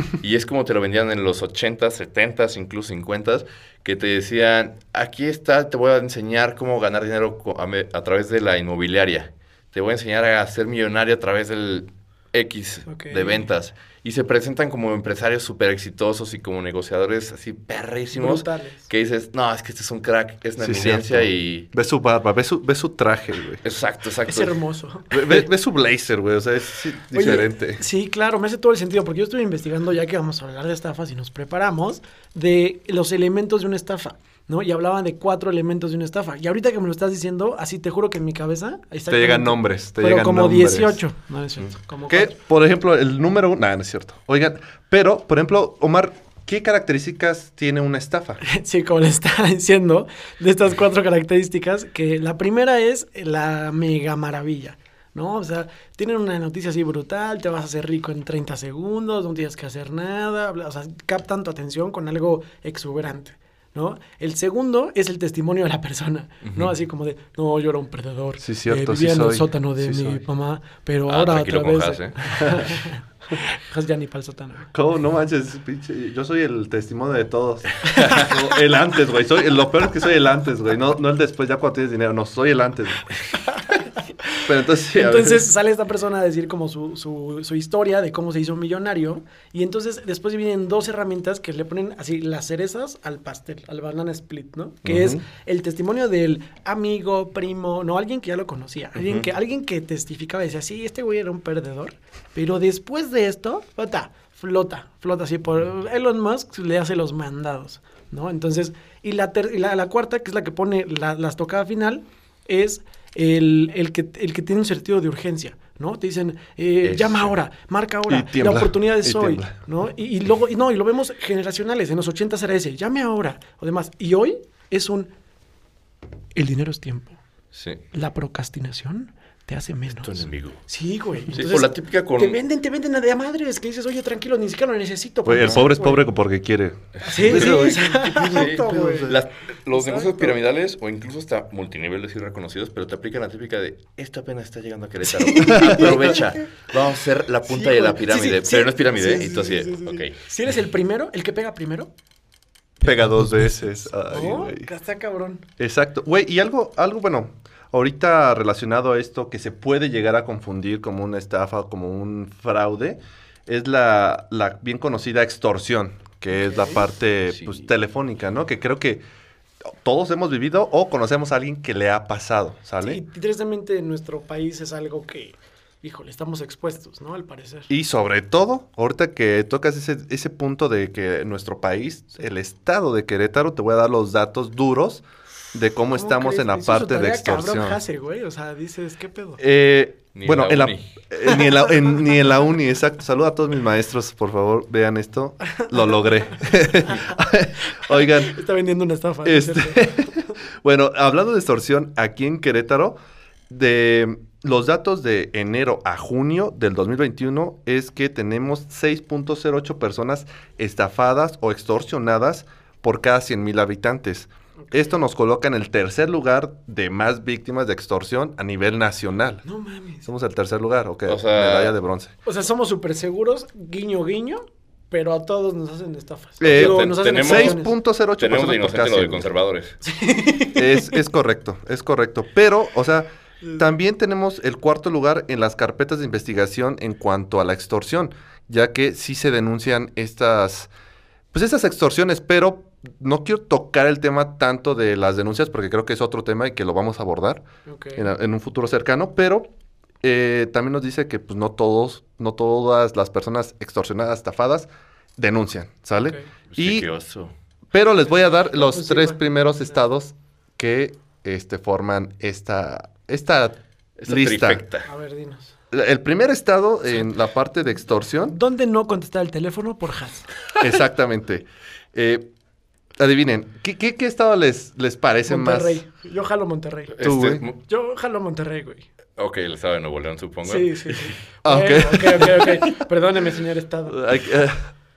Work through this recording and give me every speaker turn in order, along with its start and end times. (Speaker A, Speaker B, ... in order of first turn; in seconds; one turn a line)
Speaker A: 0.2-21.7
Speaker B: 12.9-13.5
Speaker B: 18.1-18.9
Speaker C: 20.6-23.6
Speaker A: 23.6-24.6
Speaker B: 24.3-25.4
Speaker C: 25.1-27.8
Speaker B: 27.1-42.4
Speaker C: 39.1-41.0
Speaker C: 42.1-48.4
Speaker B: 48.4-74.7
Speaker A: 66.4-66.7
Speaker C: 68.4-70.2
Speaker A: 71.1-72.6
Speaker C: 74.7-83.1
Speaker B: 77.9-78.3
Speaker B: 84.3-125.1
Speaker C: 84.5-85.5
Speaker C: 94.8-95.2
Speaker A: 99.0-99.3
Speaker A: 116.8-117.3
Speaker C: 118.1-119.5
Speaker B: 126.3-127.2
Speaker A: 127.5-127.8
Speaker B: 127.9-136.1
Speaker A: 130.0-130.6
Speaker A: 131.3-132.4
Speaker C: 135.2-139.2
Speaker A: 137.0-150.1
Speaker B: 137.0-139.2
Speaker B: 139.7-140.3
Speaker B: 145.0-146.5
Speaker C: 145.6-146.0
Speaker B: 147.5-151.9
Speaker B: 152.8-155.4
Speaker C: 152.8-154.7
Speaker C: 155.6-169.0
Speaker B: 166.3-166.9
Speaker A: 167.3-167.6
Speaker C: 169.7-173.0
Speaker B: 172.8-177.7
Speaker C: 177.7-187.8
Speaker B: 185.9-189.4
Speaker C: 189.4-198.3
Speaker A: 190.2-190.9
Speaker B: 195.6-195.9
Speaker B: 196.8-200.2
Speaker C: 199.2-203.0
Speaker C: 203.5-219.4
Speaker B: 214.7-214.9
Speaker B: 219.4-220.1
Speaker C: 220.1-222.1
Speaker A: 221.1-221.8
Speaker B: 222.2-227.7
Speaker C: 226.4-229.3
Speaker A: 226.5-227.6
Speaker A: 228.2-229.8
Speaker B: 229.8-231.0
Speaker C: 230.6-240.7
Speaker C: 241.3-247.4
Speaker B: 247.7-248.1
Speaker C: 248.0-249.5
Speaker C: 250.0-256.9
Speaker A: 256.5-257.3
Speaker C: 257.7-264.6
Speaker B: 258.5-259.2
Speaker A: 264.0-264.9
Speaker B: 264.9-265.5
Speaker C: 265.7-268.4
Speaker B: 268.3-270.3
Speaker C: 270.6-272.3
Speaker C: 273.0-275.8
Speaker B: 275.3-276.9
Speaker A: 276.9-277.6
Speaker C: 277.0-277.4
Speaker B: 277.7-278.9
Speaker A: 279.2-281.1
Speaker B: 280.4-284.0
Speaker C: 281.4-282.8
Speaker C: 283.9-284.7